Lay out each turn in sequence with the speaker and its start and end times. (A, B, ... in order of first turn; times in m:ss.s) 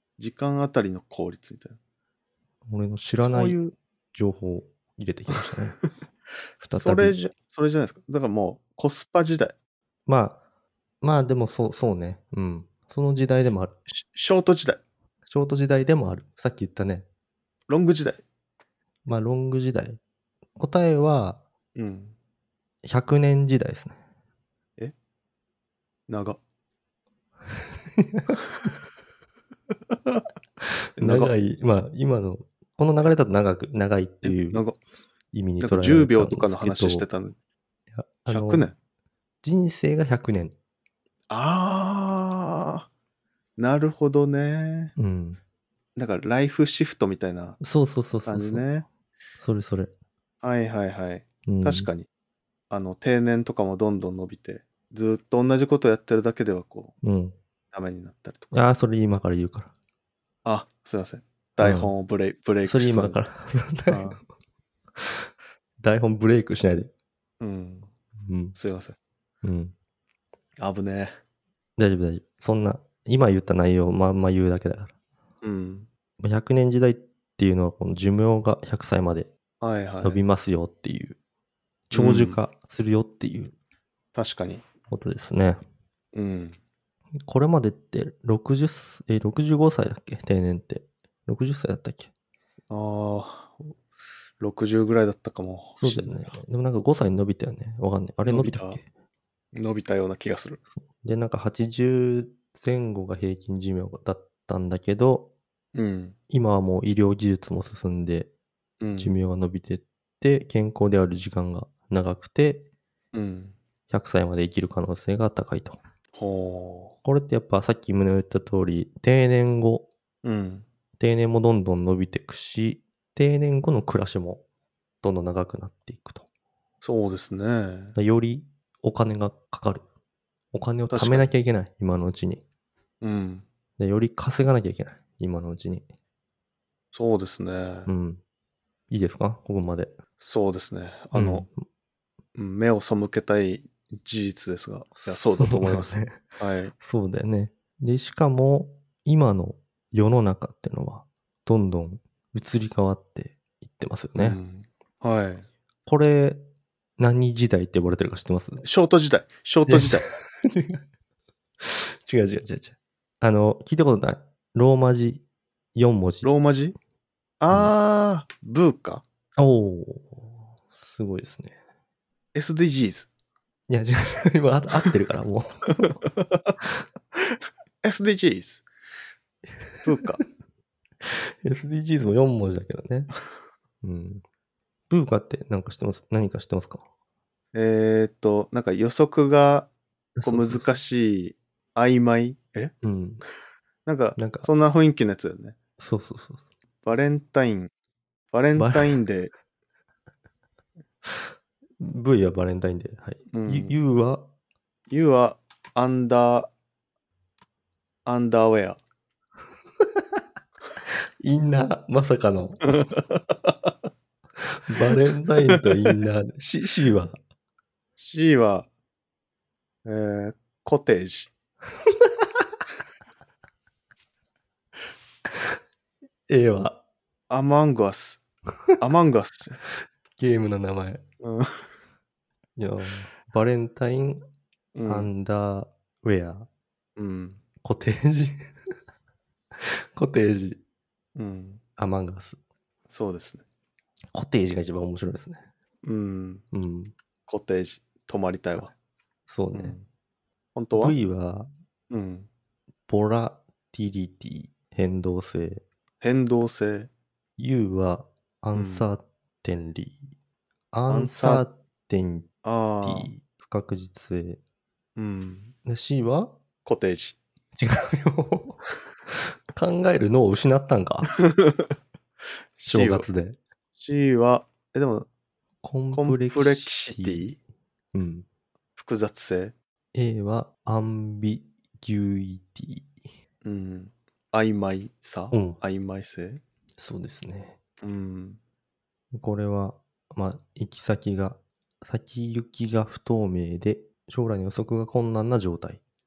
0:00.2-0:01.8 A
0:02.7-0:03.6 B
0:03.2-0:03.7 A
0:04.1-0:05.8 B
0:06.6-0:07.2 B
0:06.7-0:09.5 A
0:10.1-0:10.4 B
0:11.0-0:13.8 B
0:13.9-0:14.8 A
0:15.3-0:17.0 B
0:17.7-0:18.2 A
0:19.0-0:20.0 B
0:20.6-0:21.4 B
0:21.8-0:22.1 A
0:22.8-0:24.0 B
0:26.1-0:26.4 A
0:28.0-0:28.4 B
0:30.6-0:34.6 B
0:31.0-0:31.3 A
0:34.2-0:34.8 A
0:35.3-0:37.0 B
0:35.6-0:37.3 A
0:37.9-0:38.7 B
0:38.3-0:38.7 A
0:39.4-0:40.5 B
0:41.3-0:42.9 A
0:43.6-0:44.9 A
0:45.0-0:45.4 B
0:46.0-0:47.6 A
0:47.6-0:48.6 B
0:48.2-0:48.8 A
0:49.4-0:49.9 B
0:50.4-0:52.1 A
0:51.5-0:51.9 B
0:52.7-0:56.9 A
0:57.0-0:57.4 B
0:57.7-0:58.5 A
0:58.5-0:59.7 B
1:00.4-1:03.2 A
1:01.6-1:01.9 B
1:02.6-1:04.2 B
1:03.9-1:04.2 A
1:05.0-1:05.3 B
1:05.8-1:06.9 B
1:07.4-1:07.9 A
1:08.2-1:08.6 B
1:08.6-1:09.0 A
1:09.4-1:09.7 B
1:10.6-1:11.1 A
1:11.8-1:14.9 B
1:15.4-1:15.9 A
1:16.2-1:19.3 B
1:19.6-1:20.2 A
1:20.0-1:21.2 B
1:21.9-1:23.5 B
1:21.9-1:22.4 A
1:24.1-1:24.6 A
1:24.9-1:25.6 B
1:26.1-1:26.6 A
1:27.2-1:32.1 B
1:32.7-1:33.8 A
1:34.4-1:36.4 A
1:35.8-1:38.8 B
1:38.2-1:38.8 A
1:39.5-1:40.6 A
1:40.8-1:45.3 B
1:45.7-1:46.2 A
1:46.3-1:48.3 B
1:48.8-1:49.2 A
1:49.0-1:52.6 B
1:53.1-1:53.6 A
1:53.9-1:55.8 B
1:56.1-1:56.9 A
1:57.0-1:59.9 B
2:00.2-2:00.7 A
2:01.0-2:04.4 B
2:05.0-2:06.2 B
2:06.8-2:08.0 A
2:08.0-2:09.8 B
2:10.5-2:12.4 B
2:10.9-2:11.3 A
2:13.0-2:13.4 A
2:13.8-2:15.8 B
2:16.9-2:17.9 A
2:17.9-2:18.2 B
2:18.9-2:19.9 B
2:20.2-2:21.5 A
2:21.1-2:21.6 B
2:22.3-2:26.7 A
2:25.0-2:26.2 B
2:26.8-2:34.4 B
2:34.2-2:35.4 A
2:35.8-2:36.4 B
2:37.0-2:38.6 B
2:38.6-2:40.1 A
2:39.7-2:40.8 B
2:41.6-2:45.2 B
2:45.7-2:46.3 B
2:46.2-2:46.8 A
2:47.4-2:49.0 A
2:49.4-2:51.6 B
2:52.3-2:53.1 A
2:53.7-2:56.0 B
2:57.8-2:58.7 A
2:59.6-2:59.8 B
2:59.8-3:00.2 A
3:01.0-3:03.1 B
3:03.8-3:04.2 B
3:04.9-3:06.8 B
3:07.5-3:09.7 A
3:10.2-3:10.8 B
3:10.2-3:12.7 A
3:12.8-3:13.2 B
3:13.8-3:15.6 A
3:14.2-3:14.5 B
3:15.8-3:16.4 B
3:16.8-3:17.7 A
3:18.3-3:19.3 A
3:18.6-3:19.0 B
3:21.8-3:24.3 B
3:23.3-3:23.8 A
3:24.9-3:26.5 A
3:28.0-3:28.8 A
3:30.8-3:32.9 B
3:32.9-3:33.7 A
3:34.5-3:37.2 B
3:38.0-3:38.7 A
3:39.8-3:41.3 A
3:41.8-3:42.3 B
3:46.3-3:46.8 B
3:47.3-3:48.2 A
3:48.8-3:49.6 A
3:50.2-3:51.0 B
3:51.2-3:51.7 A
3:52.6-3:54.2 B
3:54.7-3:55.1 A
3:54.8-3:56.5 B
3:57.0-3:57.4 A
3:57.6-3:58.5 B
3:59.6-4:00.6 B
4:01.2-4:01.6 A
4:01.8-4:02.4 B
4:02.9-4:03.4 A
4:04.1-4:05.4 B
4:05.8-4:06.4 A
4:06.5-4:06.9 B
4:07.3-4:08.7 A
4:09.3-4:09.8 B
4:09.5-4:09.8 A
4:10.6-4:11.0 A
4:10.7-4:11.5 B
4:11.9-4:12.3 A
4:12.9-4:15.6 B
4:16.0-4:16.9 A
4:17.4-4:20.0 B
4:18.5-4:18.9 A
4:20.7-4:22.3 B
4:20.9-4:21.4 A
4:22.4-4:23.1 A
4:22.8-4:24.4 B
4:25.0-4:25.5 A
4:25.6-4:26.4 B
4:26.6-4:27.2 A
4:27.6-4:31.1 B
4:31.2-4:31.7 A
4:32.6-4:33.1 A
4:32.7-4:33.4 B
4:33.8-4:35.1 A
4:35.6-4:37.4 B
4:35.9-4:37.4 A
4:37.9-4:38.2 B
4:38.8-4:39.5 A
4:39.9-4:42.9 B
4:43.4-4:46.4 A
4:45.3-4:45.6 B
4:46.8-4:47.6 B
4:47.8-4:48.4 A
4:49.1-4:55.8 B